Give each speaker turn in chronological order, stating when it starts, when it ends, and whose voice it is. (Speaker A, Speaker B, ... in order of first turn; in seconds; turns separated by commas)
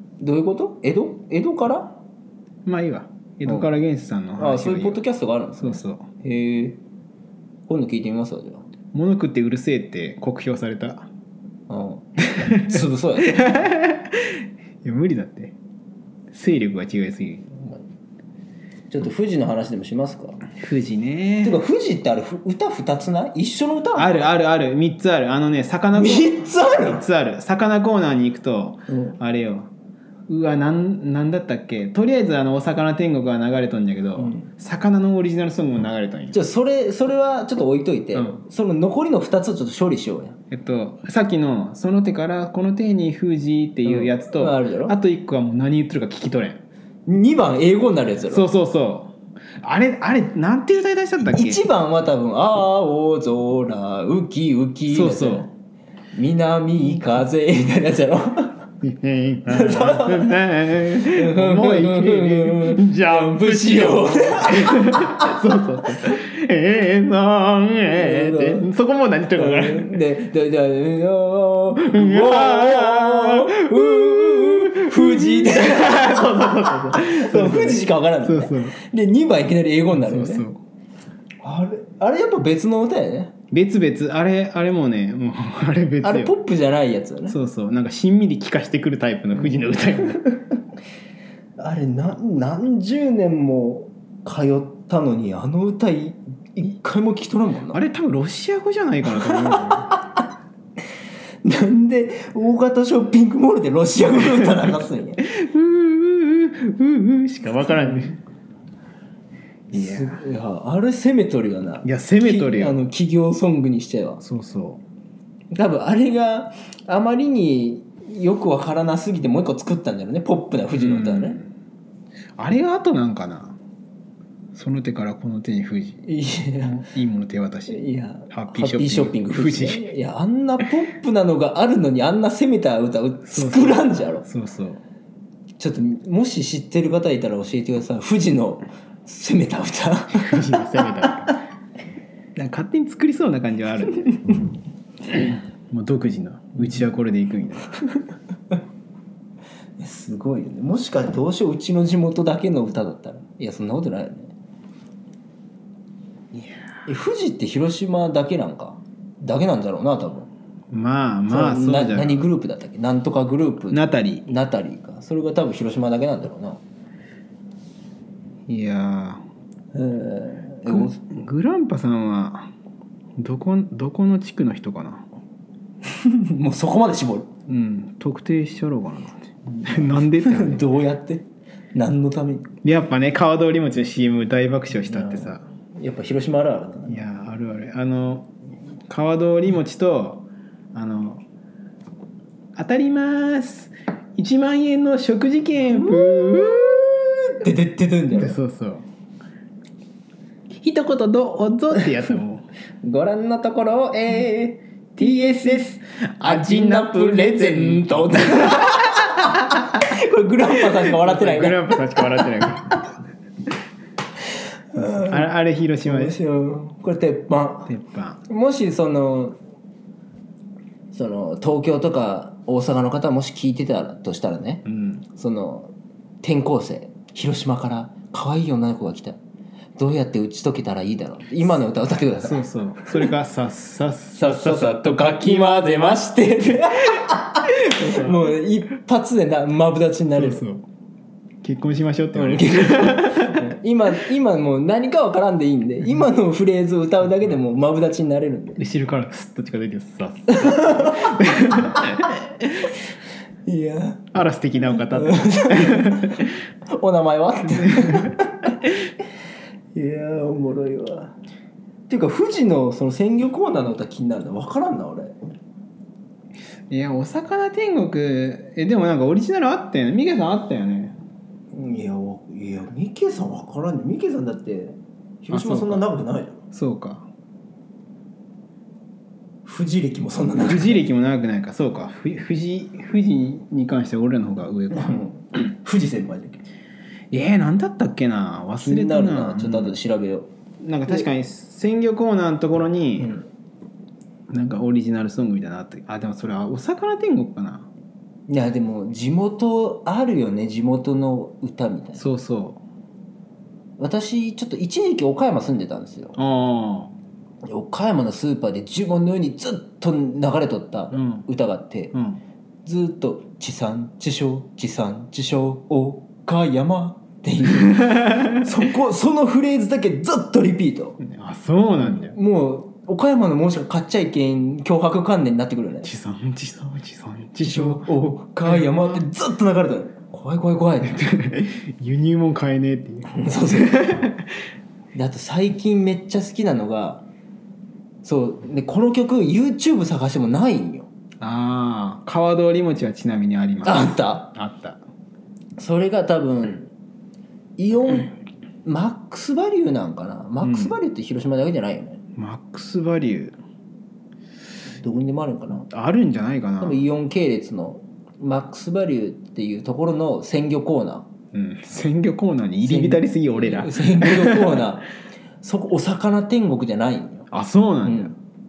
Speaker A: 0.2-2.0, Speaker B: 2.7-5.0, Speaker A: 4.4-6.8, Speaker B: 5.6-6.1, Speaker A: 7.7-8.7, Speaker B: 8.9-11.1, Speaker A: 11.7-13.6, Speaker B: 12.4-15.6, Speaker B: 16.3-17.5, Speaker A: 17.6-17.8, Speaker A: 18.9-20.4, Speaker B: 20.6-21.6, Speaker A: 21.4-24.3, Speaker B: 24.0-26.3, Speaker A: 25.9-27.0, Speaker B: 26.9-29.7, Speaker A: 28.9-29.2, Speaker B: 30.3-36.4, Speaker A: 34.2-34.5, Speaker A: 36.3-40.4, Speaker B: 40.5-46.6, Speaker A: 43.9-45.0, Speaker A: 47.1-48.5, Speaker B: 48.3-51.6, Speaker A: 51.2-55.5, Speaker B: 54.9-55.5, Speaker A: 56.1-58.6, Speaker B: 58.8-70.0, Speaker A: 59.5-60.4, Speaker A: 61.1-65.4, Speaker A: 67.9-68.7, Speaker A: 69.3-80.5, Speaker B: 71.8-78.8, Speaker B: 80.0-80.6, Speaker A: 81.4-83.3, Speaker B: 83.5-86.3, Speaker A: 86.0-87.4, Speaker B: 87.3-90.2, Speaker A: 91.6-97.8, Speaker B: 97.7-99.9, Speaker A: 99.1-100.2, Speaker A: 101.4-105.2, Speaker B: 105.2-108.2, Speaker A: 107.6-108.2, Speaker B: 109.7-110.2, Speaker A: 109.7-114.2, Speaker B: 111.8-112.8, Speaker B: 114.2-114.8, Speaker A: 115.5-121.4, Speaker B: 120.8-121.5, Speaker B: 122.4-123.6, Speaker B: 124.5-126.0, Speaker A: 126.1-126.8, Speaker B: 126.6-129.9, Speaker A: 127.7-134.3, Speaker B: 133.3-134.8, Speaker A: 135.6-140.4, Speaker B: 140.1-141.3, Speaker B: 142.3-144.5, Speaker B: 145.1-147.7, Speaker A: 149.8-154.3, Speaker A: 156.9-160.3, Speaker B: 160.7-162.3, Speaker A: 161.3-166.6, Speaker B: 163.7-164.3, Speaker B: 168.5-169.2, Speaker A: 169.7-171.0, Speaker B: 170.7-172.5, Speaker B: 173.2-175.0, Speaker A: 175.8-177.3, Speaker B: 177.5-180.7, Speaker A: 179.5-182.5, Speaker B: 182.6-185.4, Speaker A: 184.8-187.0, Speaker B: 186.9-188.3, Speaker B: 188.9-191.2, Speaker B: 192.6-196.8, Speaker A: 195.7-198.4, Speaker B: 198.1-198.8, Speaker B: 200.5-202.4, Speaker A: 202.8-212.3, Speaker B: 205.0-209.6, Speaker B: 210.7-212.8, Speaker A: 214.7-217.7, Speaker B: 214.8-216.2, Speaker B: 217.7-218.2, Speaker A: 218.3-219.3, Speaker A: 220.9-229.2, Speaker B: 224.7-225.0, Speaker A: 229.8-233.1, Speaker B: 232.2-236.1, Speaker A: 234.2-240.4, Speaker B: 237.6-238.3, Speaker B: 240.2-240.7, Speaker B: 241.4-243.4, Speaker A: 242.2-248.7, Speaker B: 248.6-252.7, Speaker A: 250.3-252.1, Speaker A: 253.5-254.0, Speaker B: 254.1-256.3, Speaker A: 254.8-258.6, Speaker B: 257.6-258.1, Speaker A: 259.8-261.1, Speaker A: 261.9-265.3, Speaker B: 266.7-271.0, Speaker A: 271.5-276.4, Speaker B: 275.3-275.9, Speaker B: 276.5-277.1, Speaker A: 279.4-280.8, Speaker B: 280.4-285.0, Speaker A: 284.7-286.4, Speaker B: 287.1-289.8, Speaker A: 288.6-290.3, Speaker B: 290.6-293.1, Speaker A: 293.0-293.2, Speaker B: 294.3-297.7, Speaker A: 298.3-302.0, Speaker B: 302.0-302.6, Speaker A: 303.8-306.2, Speaker B: 306.2-306.9, Speaker A: 307.5-311.9, Speaker B: 310.9-311.2, Speaker B: 311.9-312.2, Speaker A: 312.6-321.0, Speaker B: 321.0-322.2, Speaker A: 321.8-325.9, Speaker B: 325.8-329.0, Speaker A: 327.4-331.0, Speaker B: 330.8-334.3, Speaker A: 333.1-333.9, Speaker A: 334.9-337.1, Speaker A: 338.0-340.9, Speaker B: 341.2-344.8, Speaker A: 343.6-344.3, Speaker A: 345.6-346.7, Speaker A: 347.6-352.0, Speaker B: 350.4-350.8, Speaker B: 352.2-353.4, Speaker A: 354.8-355.7, Speaker B: 355.7-356.9, Speaker A: 356.6-361.1, Speaker B: 361.3-364.6, Speaker A: 362.6-364.9, Speaker A: 365.4-367.3, Speaker B: 367.3-368.1, Speaker A: 367.8-368.1